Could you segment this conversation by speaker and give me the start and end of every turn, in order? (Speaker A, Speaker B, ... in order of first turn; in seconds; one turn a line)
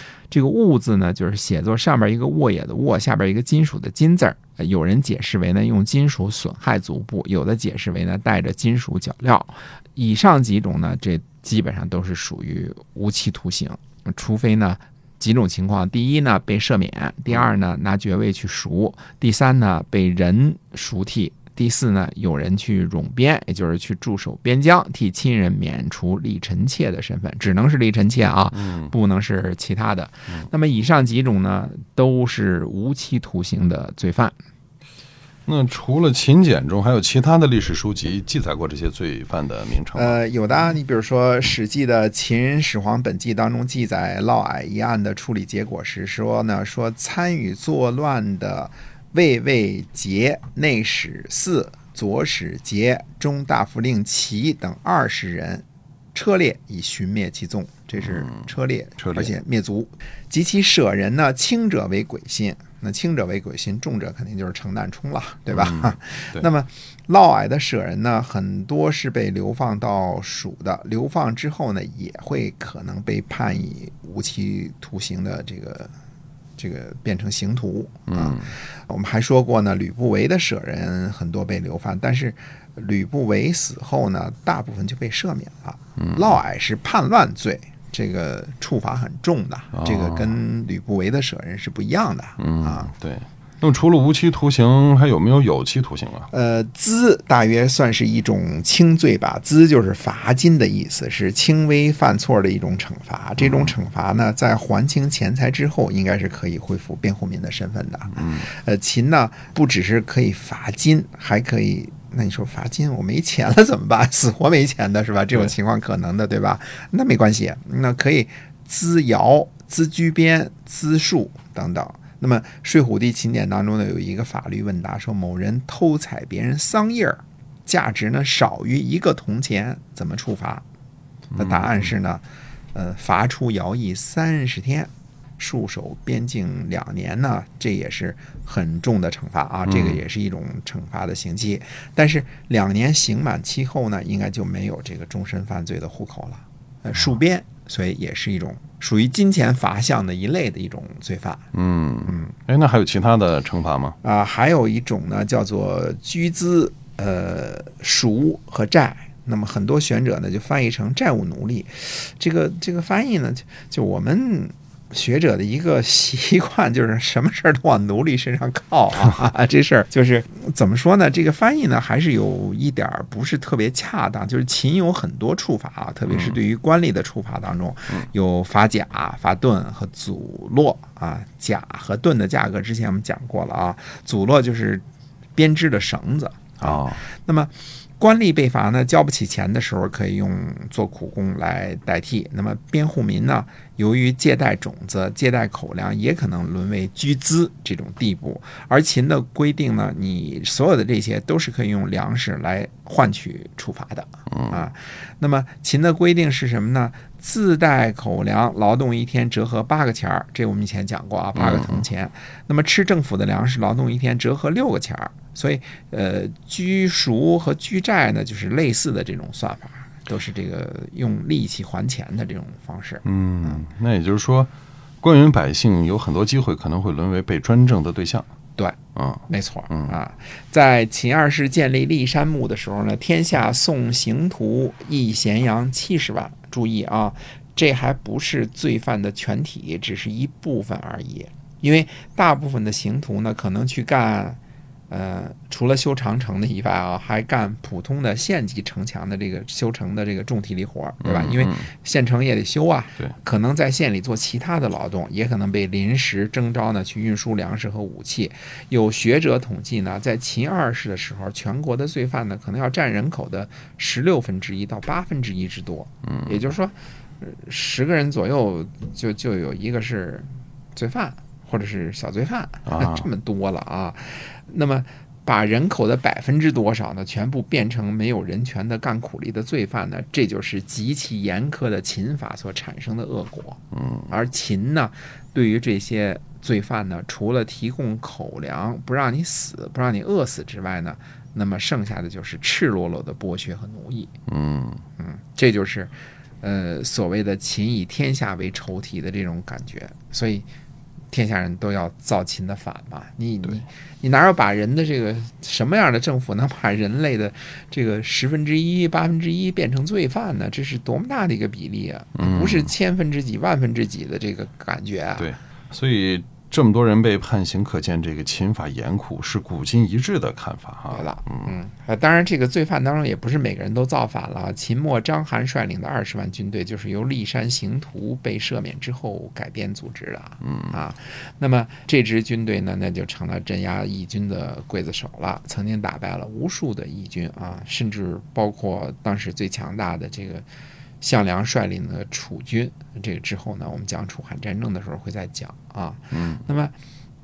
Speaker A: 0.3-34.3
Speaker B: 28.5-28.9
Speaker B: 35.5-40.2
Speaker A: 39.9-75.9
Speaker B: 58.0-59.3
Speaker B: 65.5-66.5
Speaker A: 76.6-92.9
Speaker B: 78.1-78.5
Speaker B: 86.0-86.3
Speaker B: 89.7-90.4
Speaker B: 92.4-96.3
Speaker A: 96.3-130.6
Speaker B: 103.4-103.7
Speaker B: 108.1-108.5
Speaker B: 131.3-131.9
Speaker A: 131.4-132.2
Speaker A: 132.7-151.4
Speaker B: 139.7-140.0
Speaker B: 151.5-154.0
Speaker A: 154.0-184.8
Speaker B: 176.1-176.4
Speaker A: 185.3-223.6
Speaker B: 186.6-187.1
Speaker B: 204.3-204.7
Speaker B: 211.3-211.8
Speaker B: 223.0-228.3
Speaker B: 228.9-230.0
Speaker A: 229.3-244.4
Speaker A: 244.9-294.1
Speaker B: 251.0-251.7
Speaker B: 266.0-266.4
Speaker B: 272.6-273.1
Speaker B: 283.7-284.2
Speaker B: 294.3-294.8
Speaker A: 295.0-300.4
Speaker A: 301.1-315.3
Speaker B: 312.1-312.7
Speaker B: 315.2-321.6
Speaker A: 320.9-340.4
Speaker B: 330.4-330.8
Speaker A: 341.0-346.7
Speaker B: 346.1-346.4